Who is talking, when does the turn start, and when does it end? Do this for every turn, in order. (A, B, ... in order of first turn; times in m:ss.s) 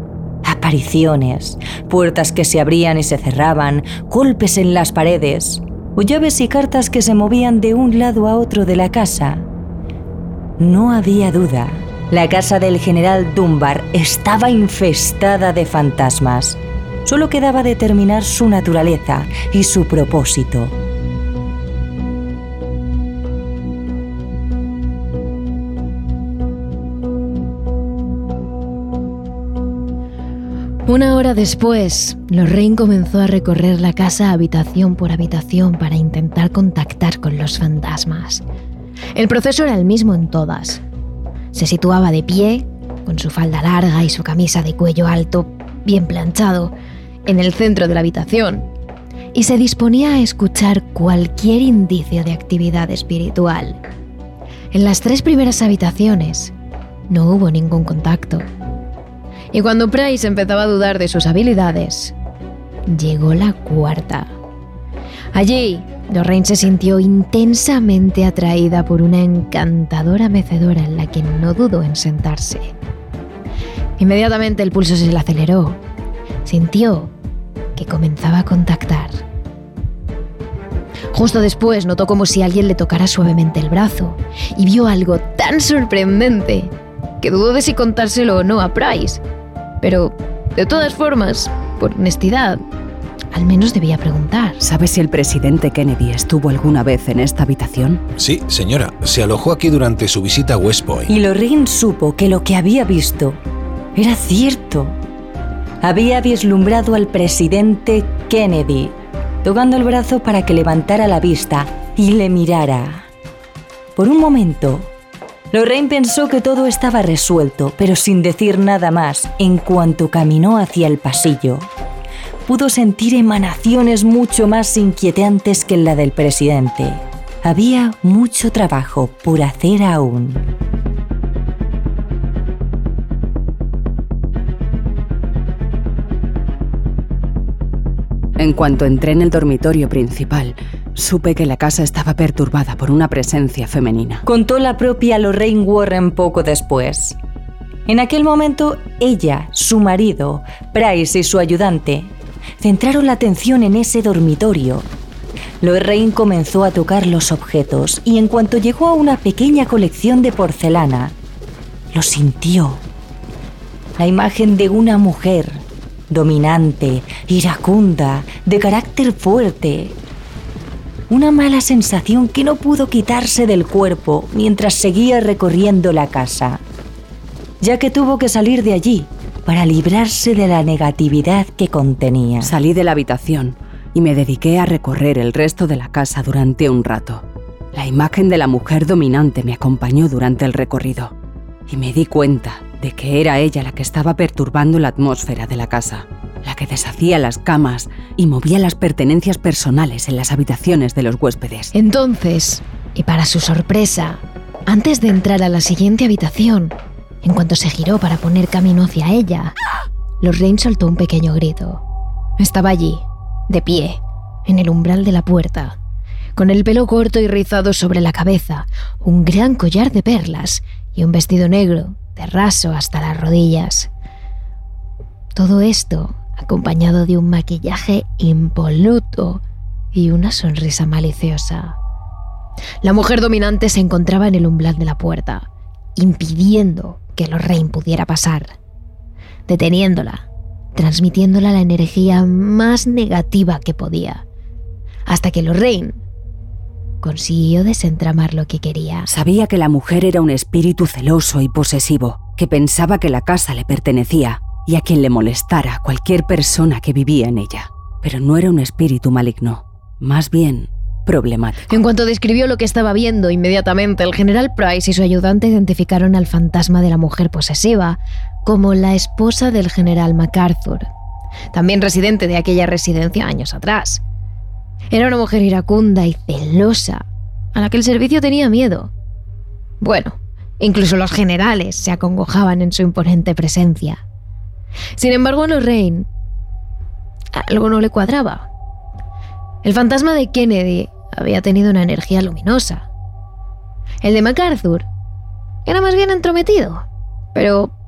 0:00.4-0:09.5 A
0:10.6-0:20.8 A
0:30.9-0:38.4 B
0:39.1-0:40.8 B
0:41.5-0:46.7 B
0:47.2-0:48.7 B
0:49.3-0:53.8 B
0:54.7-0:56.5 B
0:57.1-0:58.5 B
0:59.5-1:02.1 B
1:02.9-1:04.3 B
1:05.3-1:12.7 B
1:14.0-1:15.8 B
1:16.4-1:17.1 B
1:17.8-1:19.2 B
1:21.1-1:29.2 B
1:29.8-1:32.6 B
1:33.3-1:34.6 B
1:34.6-1:38.0 C
1:38.2-1:41.2 D
1:41.1-1:43.4 A
1:44.0-1:45.0 A
1:45.8-1:53.1 A
1:54.0-1:54.9 A
1:55.5-2:01.7 A
2:02.4-2:10.4 A
2:18.4-2:24.2 C
2:24.2-2:27.2 A
2:27.9-2:34.9 A
2:35.6-2:41.2 A
2:41.9-2:42.8 A
2:44.0-2:50.0 A
2:51.1-2:56.6 A
2:57.6-3:02.6 A
3:02.4-3:11.1 C
3:11.7-3:21.7 C
3:21.7-3:29.5 B
3:30.2-3:31.8 B
3:32.4-3:35.8 B
3:36.4-3:43.9 B
3:45.3-3:49.4 B
3:49.9-3:51.8 B
3:52.8-3:58.6 B
3:59.5-4:04.2 B
4:05.1-4:06.0 B
4:07.0-4:09.1 B
4:09.0-4:21.8 C
4:21.7-4:30.9 B
4:31.5-4:34.0 B
4:34.9-4:38.9 B
4:39.8-4:44.0 B
4:45.0-4:46.1 B
4:47.3-4:48.5 B
4:49.6-4:52.9 B
4:54.0-4:54.9 B
4:55.6-4:57.7 B